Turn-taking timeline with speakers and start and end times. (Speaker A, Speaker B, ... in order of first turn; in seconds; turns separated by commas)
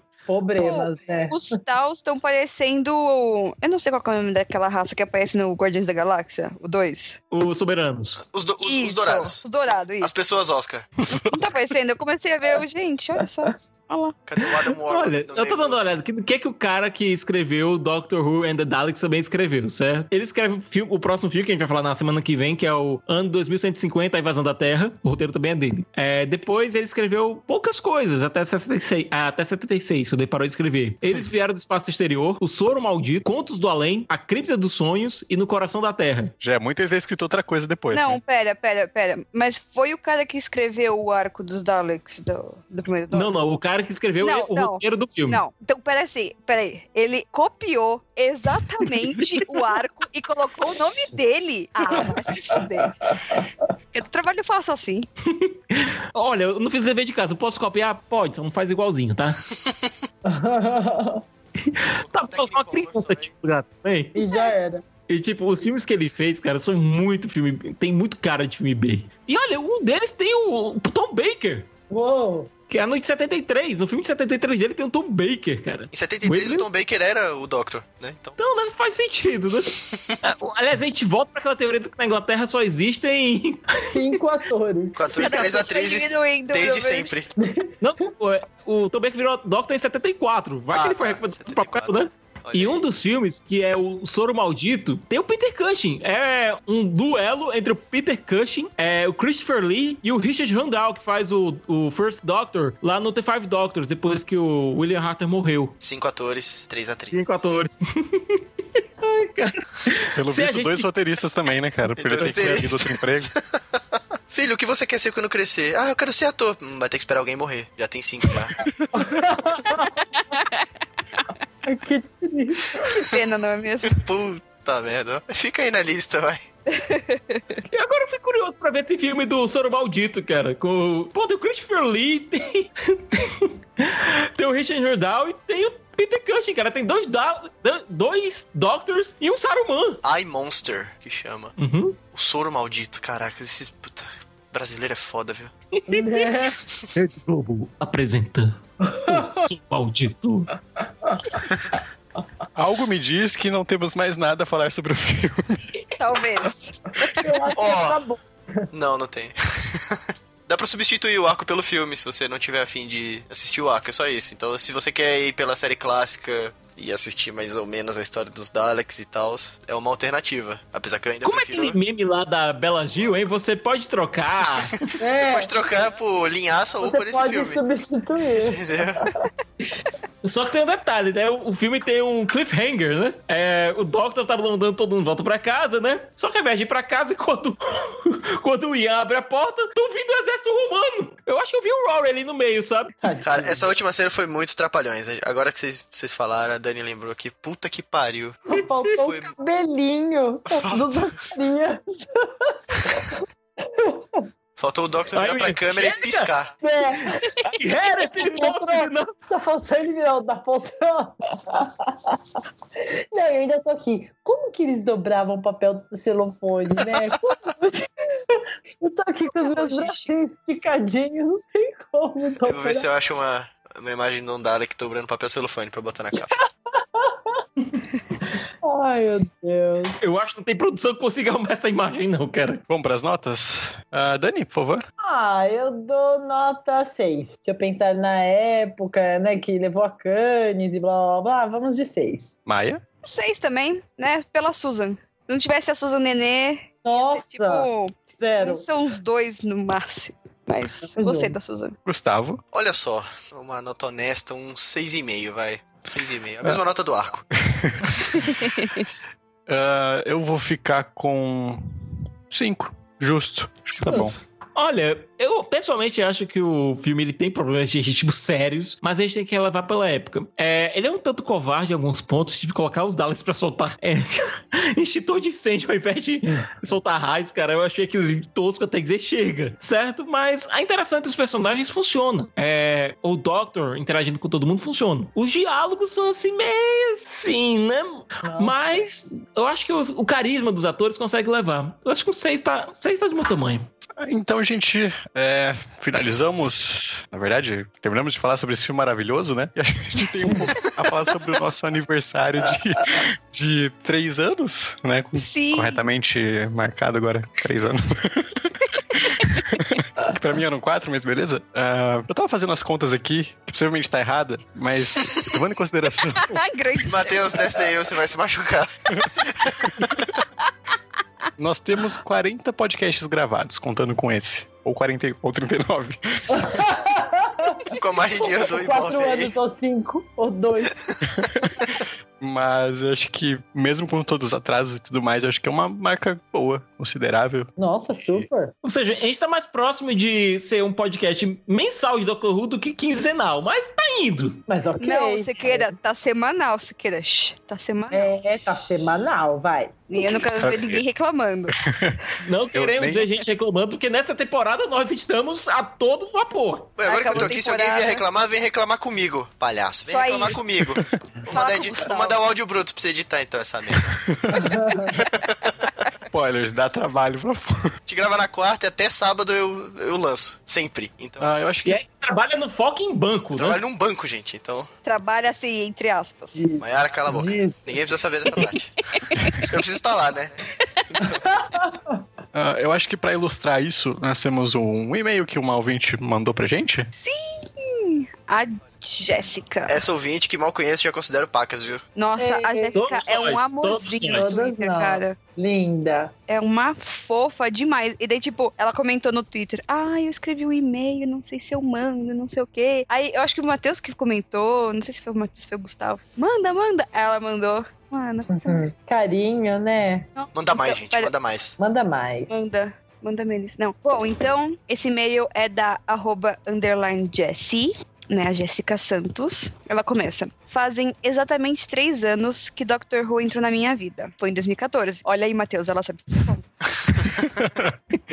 Speaker A: 0.3-1.6, Speaker B: 0.6-7.2, Speaker C: 7.3-8.2, Speaker D: 8.2-9.4, Speaker B: 8.6-10.1, Speaker D: 10.0-10.9, Speaker E: 11.0-11.4, Speaker B: 11.2-14.2, Speaker D: 14.2-16.0, Speaker C: 14.8-36.3, Speaker E: 36.4-38.2, Speaker B: 37.9-43.3, Speaker C: 43.1-45.4, Speaker B: 44.2-53.0, Speaker B: 53.9-55.1, Speaker C: 55.3-59.4, Speaker A: 60.2-61.2, Speaker C: 61.6-64.2, Speaker D: 61.8-63.3, Speaker A: 64.1-64.8, Speaker C: 65.1-71.7, Speaker A: 71.9-72.5, Speaker C: 72.7-76.7, Speaker D: 75.9-78.4, Speaker C: 78.4-84.1, Speaker A: 83.9-85.4, Speaker D: 84.9-87.3, Speaker B: 85.1-87.1, Speaker A: 87.4-87.7, Speaker C: 87.8-105.7, Speaker D: 90.7-92.8, Speaker D: 105.8-107.3, Speaker C: 107.0-108.4, Speaker C: 109.0-110.9, Speaker E: 110.1-113.3, Speaker D: 112.0-118.7, Speaker C: 112.2-112.7, Speaker A: 118.9-120.0, Speaker B: 120.1-120.6, Speaker A: 121.6-122.9, Speaker B: 122.9-124.0, Speaker D: 123.9-126.5, Speaker B: 126.7-127.6, Speaker C: 127.7-140.0, Speaker D: 140.0-141.5, Speaker C: 141.6-142.0, Speaker D: 142.1-145.5, Speaker C: 145.8-150.5, Speaker A: 145.9-146.6, Speaker A: 148.8-149.4, Speaker E: 152.5-155.6, Speaker B: 156.0-157.3, Speaker A: 157.2-158.7, Speaker D: 157.5-158.0, Speaker D: 158.7-171.8, Speaker C: 171.2-174.8, Speaker A: 175.0-175.5, Speaker D: 175.2-177.6, Speaker A: 176.8-178.8, Speaker D: 178.4-179.1, Speaker C: 180.2-192.9, Speaker A: 193.0-193.7, Speaker D: 193.2-198.4, Speaker A: 198.5-203.1, Speaker D: 198.9-199.3, Speaker D: 200.5-201.2, Speaker A: 203.7-204.2, Speaker D: 204.6-206.5, Speaker C: 205.1-206.3, Speaker A: 206.6-207.3, Speaker C: 207.4-209.1, Speaker A: 208.2-212.4, Speaker A: 213.1-222.9, Speaker B: 219.3-220.1, Speaker D: 222.4-226.3, Speaker A: 226.8-227.3, Speaker A: 228.6-230.0, Speaker C: 230.0-232.6, Speaker E: 232.7-234.8, Speaker A: 235.0-242.3, Speaker E: 242.4-242.8, Speaker B: 243.0-251.8, Speaker A: 246.8-247.7, Speaker A: 248.2-248.7, Speaker A: 250.8-251.3, Speaker E: 251.8-252.4, Speaker D: 252.5-257.3, Speaker E: 257.4-257.8, Speaker D: 257.9-258.1, Speaker B: 258.4-258.9, Speaker E: 259.5-261.8, Speaker E: 262.3-264.1, Speaker D: 263.9-264.2, Speaker C: 264.5-293.7, Speaker A: 288.2-288.6, Speaker E: 294.0-316.4, Speaker B: 305.1-305.8, Speaker B: 308.7-309.4, Speaker B: 316.2-317.4, Speaker D: 316.9-319.8, Speaker E: 321.4-326.5, Speaker A: 326.3-327.7, Speaker D: 327.7-329.3, Speaker A: 328.4-330.7, Speaker E: 331.1-337.5, Speaker A: 337.6-338.5, Speaker C: 338.6-344.4, Speaker A: 344.5-345.7, Speaker B: 344.8-348.1, Speaker A: 347.9-349.7, Speaker B: 349.9-351.6, Speaker E: 350.4-350.8, Speaker E: 351.6-352.0, Speaker C: 352.2-356.7, Speaker E: 352.5-353.1, Speaker D: 356.8-363.9, Speaker B: 356.8-358.0, Speaker B: 359.8-360.4, Speaker B: 361.3-362.2, Speaker E: 363.9-364.5, Speaker A: 364.3-364.9, Speaker D: 364.9-365.4, Speaker E: 366.1-367.7, Speaker D: 367.9-371.3, Speaker E: 371.2-371.8, Speaker C: 371.6-373.6, Speaker D: 373.3-374.7, Speaker B: 374.8-376.4, Speaker A: 376.3-377.6, Speaker D: 376.6-378.8, Speaker B: 378.9-379.5, Speaker D: 379.4-380.3, Speaker D: 380.9-381.4, Speaker A: 381.2-382.0, Speaker E: 382.3-386.9, Speaker B: 386.9-389.8, Speaker D: 389.7-391.8, Speaker B: 391.9-395.2, Speaker A: 392.2-392.8, Speaker C: 392.7-394.4, Speaker A: 394.1-396.1, Speaker B: 396.3-408.7, Speaker A: 408.3-410.1, Speaker B: 410.1-411.1, Speaker D: 410.3-411.6, Speaker A: 411.6-412.3, Speaker B: 412.3-426.4, Speaker E: 427.3-427.7